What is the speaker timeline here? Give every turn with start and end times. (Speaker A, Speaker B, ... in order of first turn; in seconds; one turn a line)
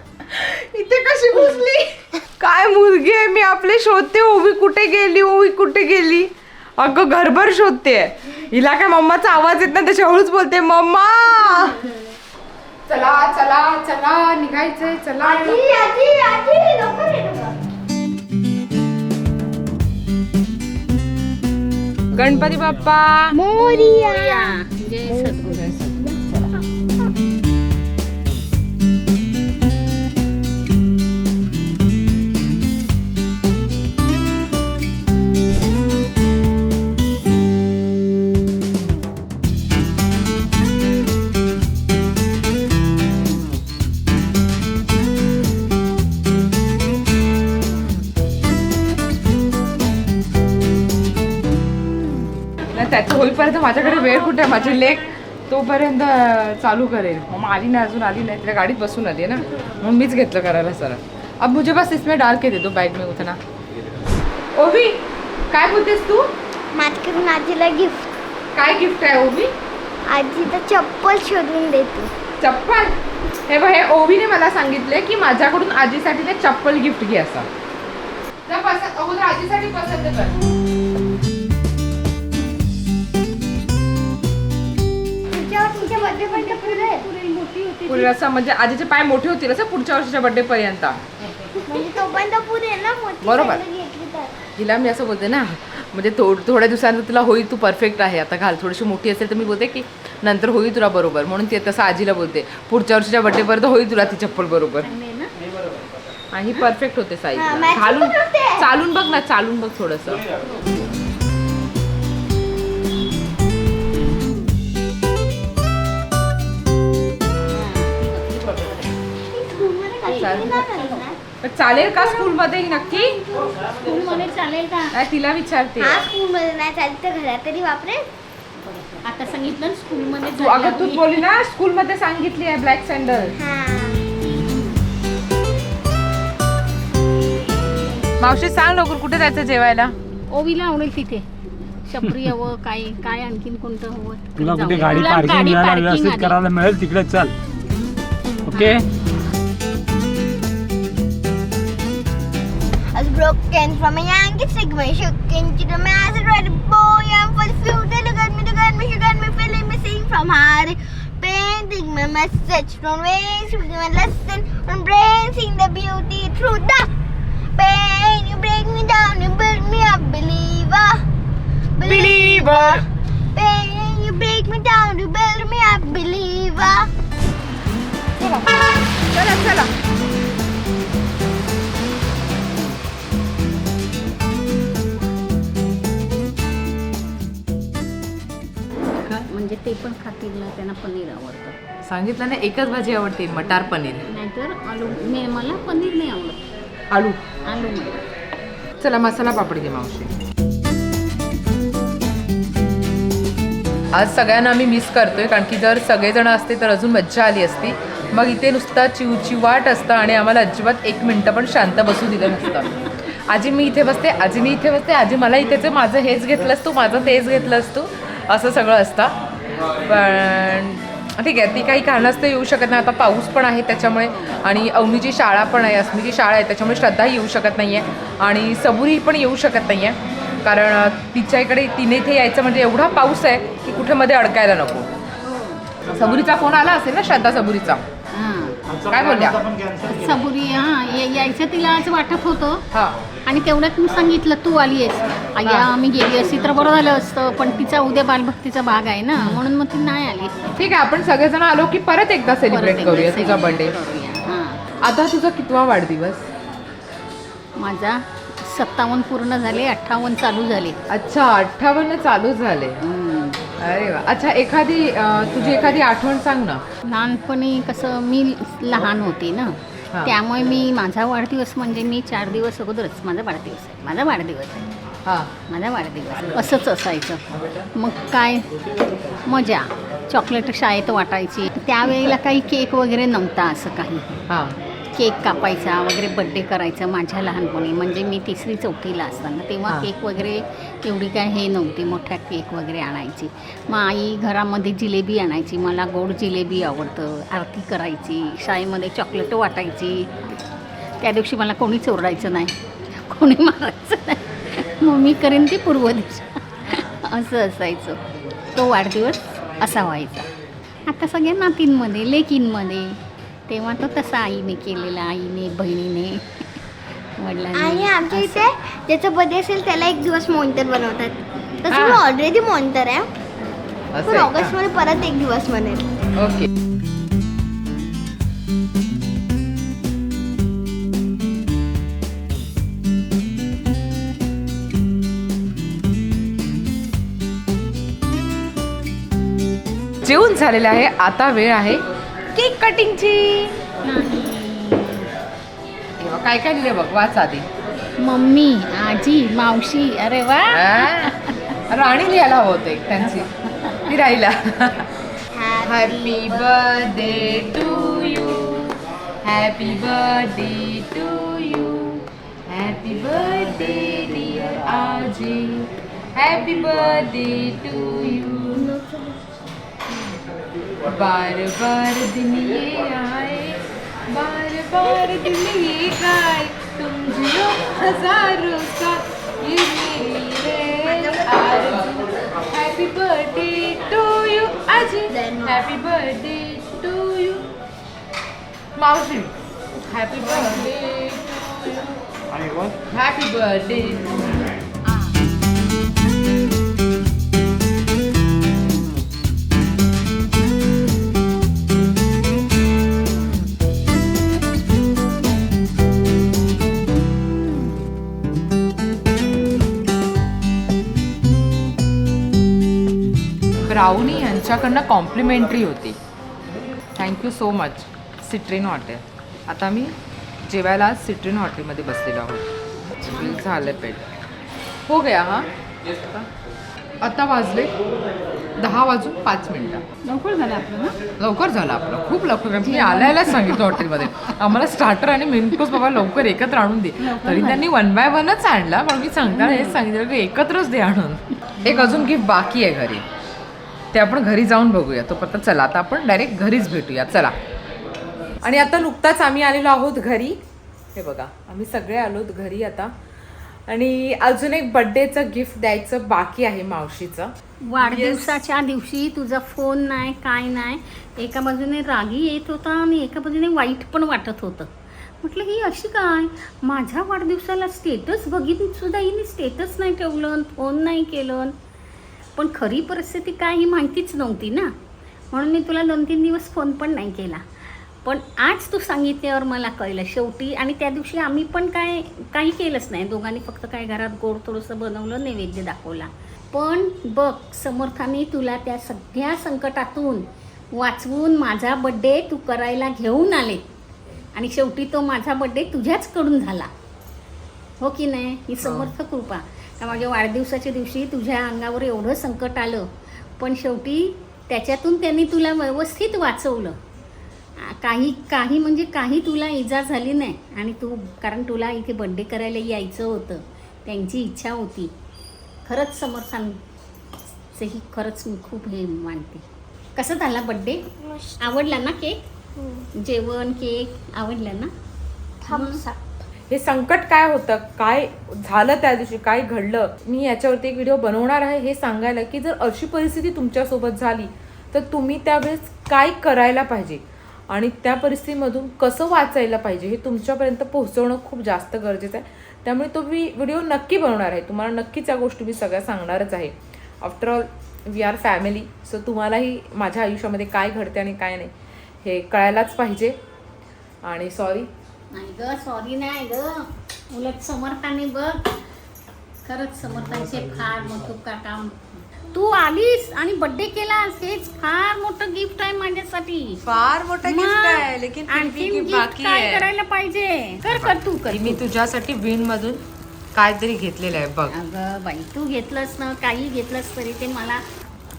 Speaker A: 0.2-11.8
Speaker A: 12.9-15.8
Speaker B: 15.2-17.6
Speaker A: 22.1-23.4
Speaker B: 23.3-24.5
Speaker C: 23.5-26.2
Speaker B: 25.1-25.5
Speaker A: 25.5-26.5
Speaker A: 52.7-63.4
Speaker C: 53.8-55.0
Speaker A: 64.5-66.3
Speaker B: 66.7-68.1
Speaker A: 68.5-69.5
Speaker B: 70.1-72.1
Speaker A: 72.4-72.9
Speaker A: 73.5-77.5
Speaker A: 78.5-80.4
Speaker B: 85.3-87.1
Speaker C: 85.6-88.1
Speaker A: 87.9-91.0
Speaker C: 91.2-92.0
Speaker B: 91.6-94.3
Speaker A: 93.2-93.6
Speaker A: 94.5-104.9
Speaker C: 104.8-105.3
Speaker D: 105.6-105.8
Speaker A: 106.3-110.3
Speaker B: 107.3-108.7
Speaker C: 117.5-119.0
Speaker B: 119.2-121.2
Speaker C: 120.0-121.1
Speaker A: 120.2-120.5
Speaker A: 121.4-123.2
Speaker C: 123.7-124.9
Speaker A: 124.9-126.1
Speaker B: 125.8-128.1
Speaker C: 128.6-131.2
Speaker A: 130.3-133.3
Speaker B: 133.3-134.0
Speaker A: 138.2-139.9
Speaker C: 140.3-141.2
Speaker C: 141.8-146.4
Speaker D: 144.4-147.3
Speaker D: 148.5-148.8
Speaker C: 148.5-148.8
Speaker B: 152.9-166.9
Speaker B: 167.6-171.0
Speaker B: 171.7-176.9
Speaker A: 171.8-172.8
Speaker A: 178.2-178.5
Speaker A: 179.1-179.7
Speaker C: 189.1-191.6
Speaker A: 191.8-194.1
Speaker C: 194.1-196.4
Speaker A: 196.9-197.2
Speaker C: 197.4-198.0
Speaker A: 198.8-200.1
Speaker A: 203.9-219.1
Speaker A: 219.8-234.9
Speaker C: 235.2-235.7
Speaker A: 235.8-237.8
Speaker C: 238.1-238.6
Speaker D: 238.7-240.1
Speaker A: 238.9-239.4
Speaker C: 239.8-242.6
Speaker C: 243.2-250.3
Speaker A: 245.4-245.7
Speaker A: 250.6-253.7
Speaker C: 252.5-254.6
Speaker A: 254.8-256.3
Speaker C: 257.6-260.8
Speaker A: 260.9-262.8
Speaker C: 262.8-263.4
Speaker A: 263.6-266.6
Speaker C: 266.9-274.7
Speaker C: 275.5-277.2
Speaker C: 277.7-278.5
Speaker C: 279.2-284.2
Speaker A: 284.3-284.6
Speaker C: 284.9-300.3
Speaker C: 301.0-308.0
Speaker C: 308.5-310.3
Speaker C: 310.9-316.2
Speaker C: 317.2-318.5
Speaker B: 317.5-323.1
Speaker A: 321.7-322.0
Speaker A: 323.9-324.6
Speaker B: 324.0-325.9
Speaker A: 326.2-326.5
Speaker A: 340.0-343.5
Speaker C: 343.8-345.1
Speaker A: 346.0-347.5
Speaker C: 348.0-351.4
Speaker A: 350.5-351.1
Speaker A: 351.7-353.3
Speaker A: 353.8-354.9
Speaker B: 355.3-356.4
Speaker A: 355.6-368.8
Speaker A: 370.8-387.4
Speaker A: 388.8-392.0
Speaker D: 392.3-392.8
Speaker A: 392.9-394.4
Speaker A: 413.6-416.0
Speaker A: 416.9-419.9
Speaker A: 420.5-424.0
Speaker C: 423.1-423.4
Speaker A: 424.9-426.3
Speaker A: 427.0-427.7
Speaker A: 428.6-429.8
Speaker C: 430.0-431.0
Speaker A: 431.2-443.0
Speaker C: 432.6-433.9
Speaker C: 437.0-437.7
Speaker C: 439.3-439.8
Speaker C: 441.6-442.1
Speaker A: 443.9-447.3
Speaker A: 448.4-450.4
Speaker A: 450.9-452.9
Speaker A: 453.7-458.4
Speaker C: 457.7-464.7
Speaker C: 465.2-471.5
Speaker C: 472.4-474.7
Speaker C: 475.3-477.4
Speaker C: 478.0-493.6
Speaker C: 494.3-496.7
Speaker C: 497.8-506.8
Speaker A: 498.6-498.9
Speaker C: 507.6-514.9
Speaker C: 515.6-516.6
Speaker C: 517.5-519.4
Speaker C: 520.0-520.8
Speaker B: 521.0-521.6
Speaker C: 521.4-522.2
Speaker B: 522.5-522.9
Speaker C: 523.0-524.7
Speaker B: 525.4-526.2
Speaker C: 525.5-525.8
Speaker A: 526.5-551.5
Speaker A: 552.0-553.2
Speaker A: 554.0-554.7
Speaker C: 555.1-558.5
Speaker C: 559.4-561.8
Speaker D: 559.9-561.1
Speaker C: 562.3-566.6
Speaker A: 566.6-569.7
Speaker C: 567.2-571.6
Speaker A: 570.6-572.8
Speaker A: 573.3-574.5
Speaker C: 574.5-577.6